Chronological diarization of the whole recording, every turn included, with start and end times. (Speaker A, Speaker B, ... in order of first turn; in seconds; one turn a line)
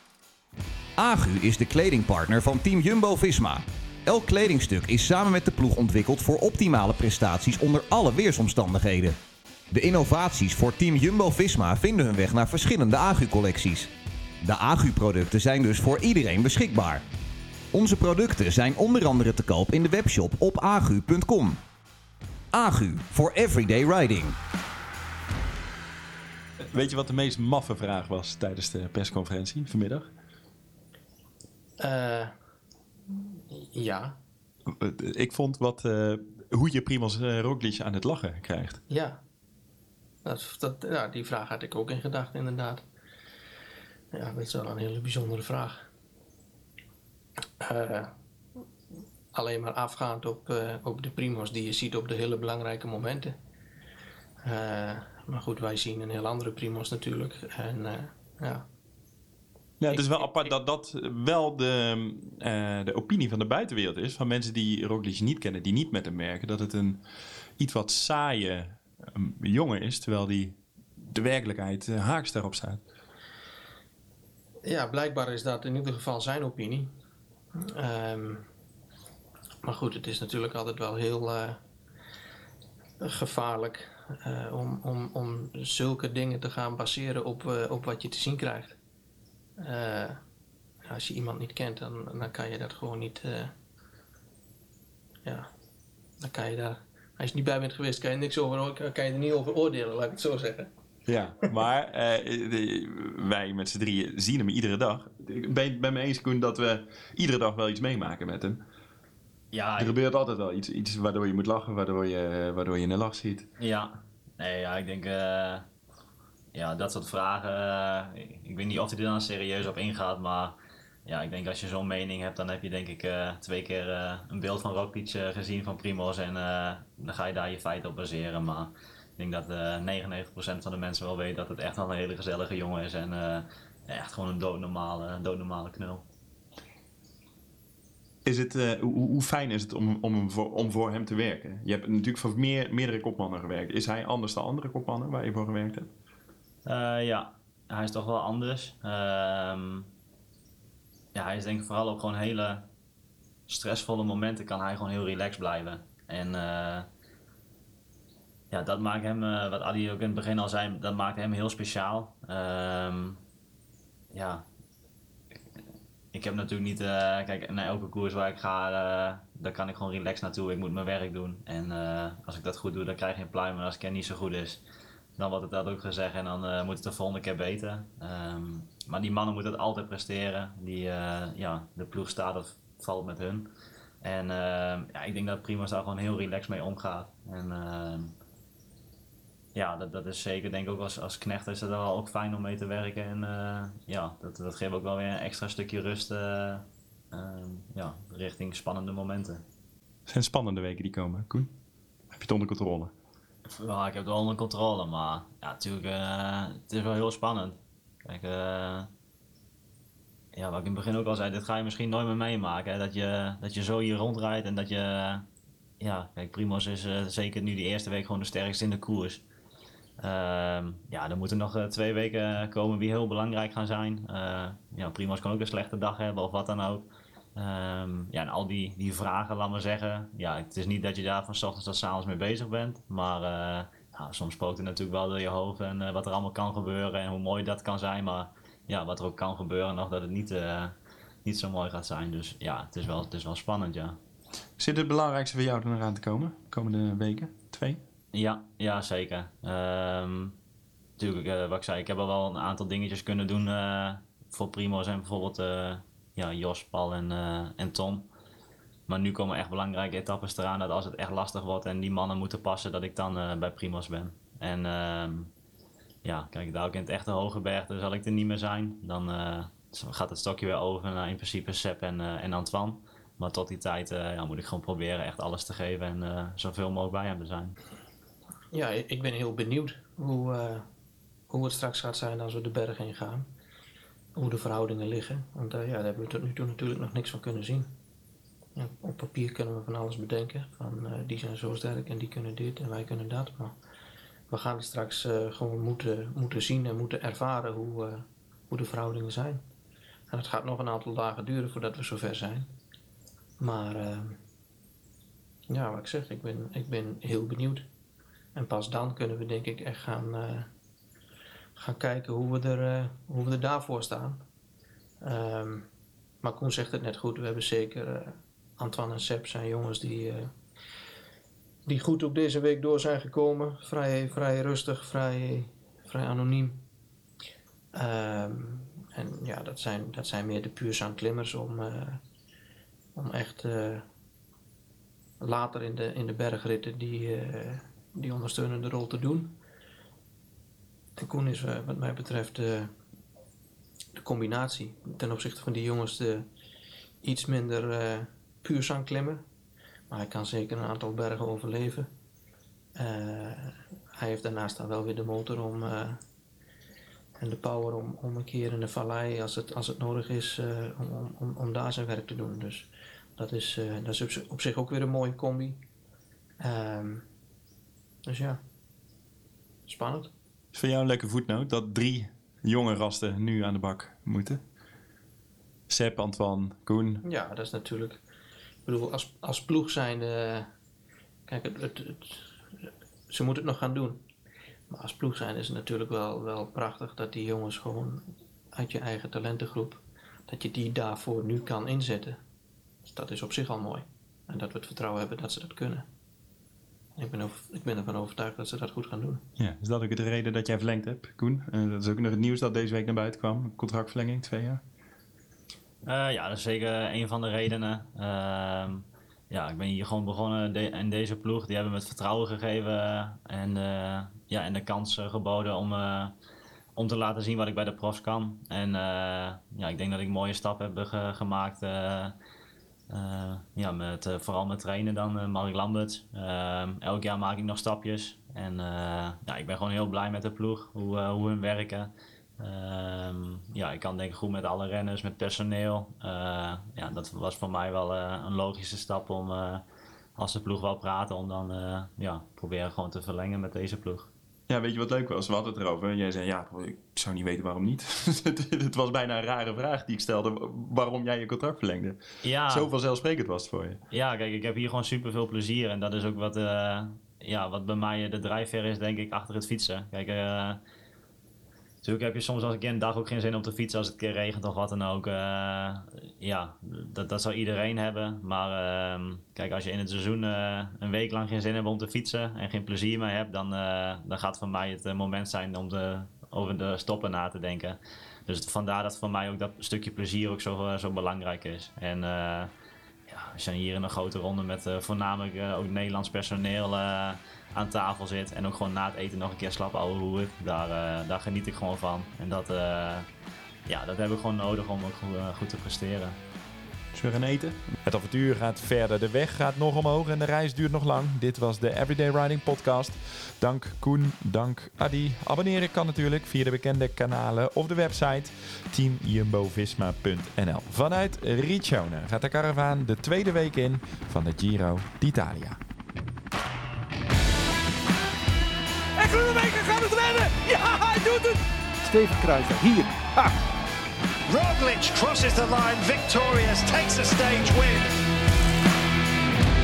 Speaker A: 1.0-9.2
Speaker A: 9.7-13.9
Speaker A: 14.4-17.0
Speaker A: 17.7-21.6
Speaker A: 22.5-24.4
Speaker B: 26.6-30.1
Speaker C: 31.8-32.4
Speaker C: 33.4-34.2
Speaker B: 34.7-38.8
Speaker C: 38.9-39.2
Speaker C: 40.2-42.8
Speaker C: 44.1-45.9
Speaker C: 47.6-48.1
Speaker C: 49.3-53.4
Speaker C: 54.4-58.7
Speaker B: 59.8-67.0
Speaker C: 59.9-60.2
Speaker B: 67.6-72.8
Speaker C: 74.7-76.9
Speaker C: 77.6-78.5
Speaker C: 79.6-81.6
Speaker C: 83.0-88.8
Speaker C: 89.6-90.2
Speaker C: 90.8-93.5
Speaker C: 95.2-95.5
Speaker C: 96.2-100.7
Speaker B: 101.1-108.6
Speaker D: 109.5-109.9
Speaker B: 109.8-113.5
Speaker D: 113.6-115.7
Speaker D: 116.5-136.0
Speaker B: 138.2-145.9
Speaker D: 146.7-149.9
Speaker D: 151.1-152.7
Speaker D: 153.5-156.9
Speaker D: 158.5-163.2
Speaker D: 164.1-164.4
Speaker D: 166.1-174.6
Speaker D: 175.2-183.5
Speaker D: 184.0-188.1
Speaker D: 189.6-199.4
Speaker B: 200.1-201.5
Speaker B: 202.1-202.9
Speaker D: 203.5-208.9
Speaker D: 210.3-215.2
Speaker D: 215.8-219.2
Speaker D: 220.0-244.0
Speaker B: 244.6-247.8
Speaker D: 248.1-250.4
Speaker D: 251.0-258.1
Speaker D: 258.9-265.3
Speaker D: 266.0-277.6
Speaker C: 278.5-280.7
Speaker C: 281.3-283.3
Speaker C: 284.2-287.7
Speaker C: 288.6-293.6
Speaker C: 294.3-299.4
Speaker C: 300.1-302.5
Speaker C: 303.4-304.2
Speaker C: 305.5-307.7
Speaker C: 308.4-310.5
Speaker C: 311.6-314.2
Speaker C: 315.0-315.7
Speaker C: 316.2-320.3
Speaker C: 321.7-326.6
Speaker C: 327.7-332.0
Speaker C: 333.0-333.9
Speaker C: 335.2-339.4
Speaker C: 341.0-342.7
Speaker C: 343.9-346.3
Speaker C: 347.0-349.2
Speaker C: 349.9-351.9
Speaker C: 352.8-356.0
Speaker C: 357.2-365.6
Speaker C: 366.4-367.1
Speaker C: 368.1-368.4
Speaker C: 369.7-370.1
Speaker B: 370.5-374.4
Speaker B: 375.7-377.0
Speaker C: 377.0-378.0
Speaker C: 378.7-380.5
Speaker C: 381.3-384.1
Speaker C: 384.7-392.2
Speaker C: 392.9-395.9
Speaker C: 397.0-399.2
Speaker B: 399.4-404.6
Speaker D: 405.9-416.1
Speaker D: 416.8-422.1
Speaker D: 422.9-439.6
Speaker D: 440.2-444.1
Speaker B: 444.5-453.8
Speaker D: 452.2-452.7
Speaker D: 453.9-460.6
Speaker D: 461.8-482.5
Speaker D: 483.1-493.1
Speaker D: 493.7-496.2
Speaker B: 496.9-497.7
Speaker E: 497.9-515.6
Speaker F: 519.0-523.4
Speaker G: 524.3-528.0